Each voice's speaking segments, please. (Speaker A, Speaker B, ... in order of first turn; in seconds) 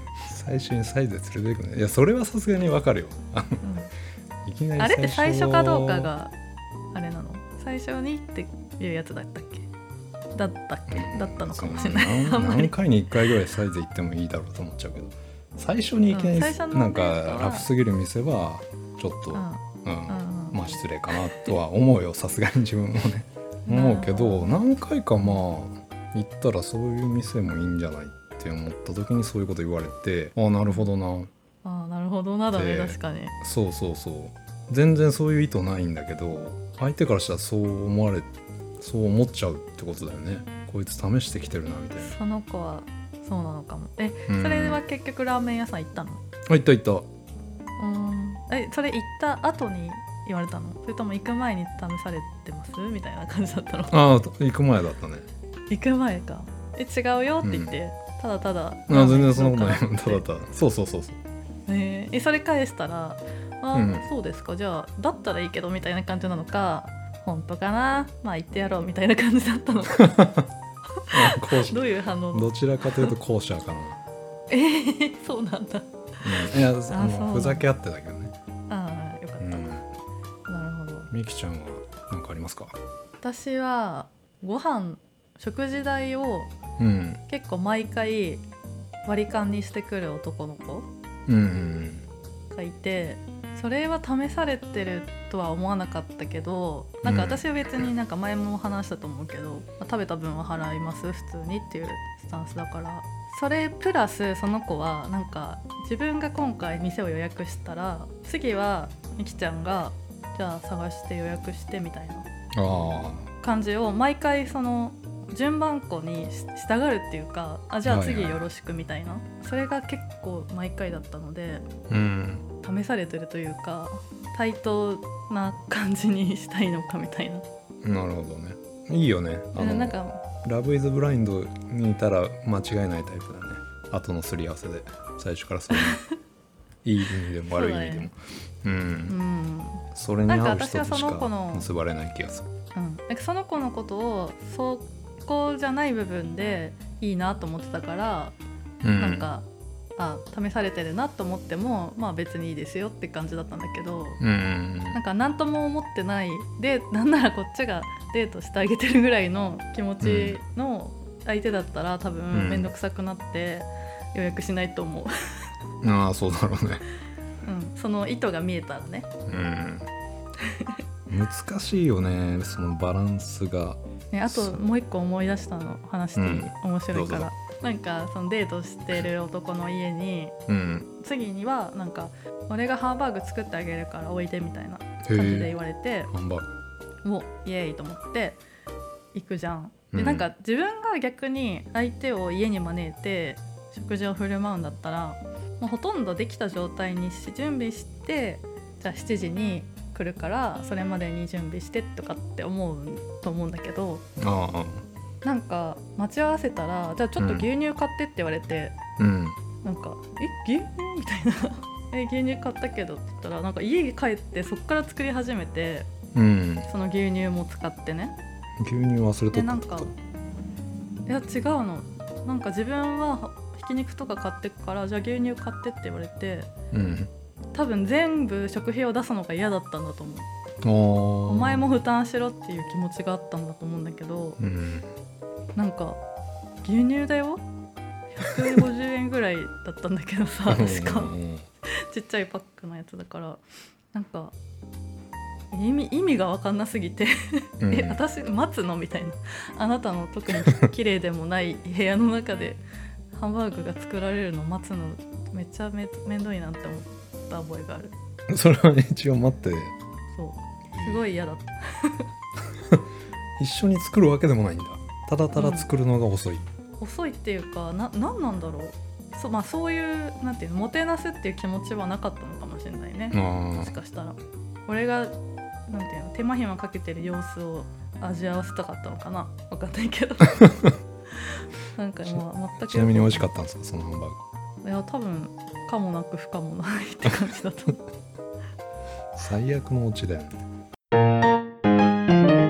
Speaker A: 0.2-3.6, 4.5-6.1, 10.9-31.3, 32.5-42.1, 44.3-44.8, 46.5-47.1, 53.9-55.3, 57.4-57.8, 58.9-61.2, 63.7-64.1, 69.9-70.4, 71.1-74.0, 76.2-78.3, 79.4-79.9, 81.1-82.8, 86.8-87.2, 91.3-92.0, 97.0-97.9, 112.5-113.3, 117.9-118.5, 121.9-122.5, 127.8-136.0, 136.8-139.2, 139.9-142.5, 148.8-149.3, 154.2-155.0, 160.0-160.4, 162.3-162.7, 165.8-166.8, 169.3-169.9, 171.1-174.6, 176.2-177.3, 180.5-180.9, 185.0-185.6, 186.1-186.5, 189.9-190.3, 204.2-204.8, 207.2-207.5, 209.0-209.4, 216.1-216.7, 218.6-219.9, 226.7-227.1, 230.6-231.6, 234.4-234.9, 238.3-238.6, 240.5-241.5, 247.6-248.0, 258.3-259.8, 260.7-261.1, 263.4-266.5, 273.1-273.8, 280.3-280.7, 282.1-284.2, 289.1-290.4
Speaker B: 3.6-3.9, 4.8-6.3, 6.9-9.7, 10.3-12.8, 16.1-17.7, 19.3-21.5, 23.7-24.6, 31.6-33.3, 42.0-46.2, 47.8-54.0, 55.7-60.2, 61.7-70.1, 71.0-73.1, 74.5-77.7, 78.7-79.8, 80.5-81.1, 83.2-86.5, 87.3-88.4, 89.0-90.9, 92.5-112.3, 113.4-121.7, 122.6-127.5, 129.6-130.2, 135.7-136.1, 137.4-138.1, 139.1-141.7, 142.8-148.4, 149.0-154.2, 154.9-165.1, 167.4-169.1, 170.4-170.8, 174.1-180.4, 181.0-186.1, 187.0-188.4, 189.1-204.1, 205.2-208.8, 209.6-215.9, 216.7-218.2, 219.3-219.9, 221.1-226.5, 227.5-230.3, 231.3-234.4, 235.6-236.0, 236.6-237.4, 238.1-243.4, 243.9-244.3, 245.5-252.6, 253.1-257.9, 260.1-262.1, 265.3-265.7, 266.8-275.2, 275.7-280.5, 281.2-283.3, 284.6-287.8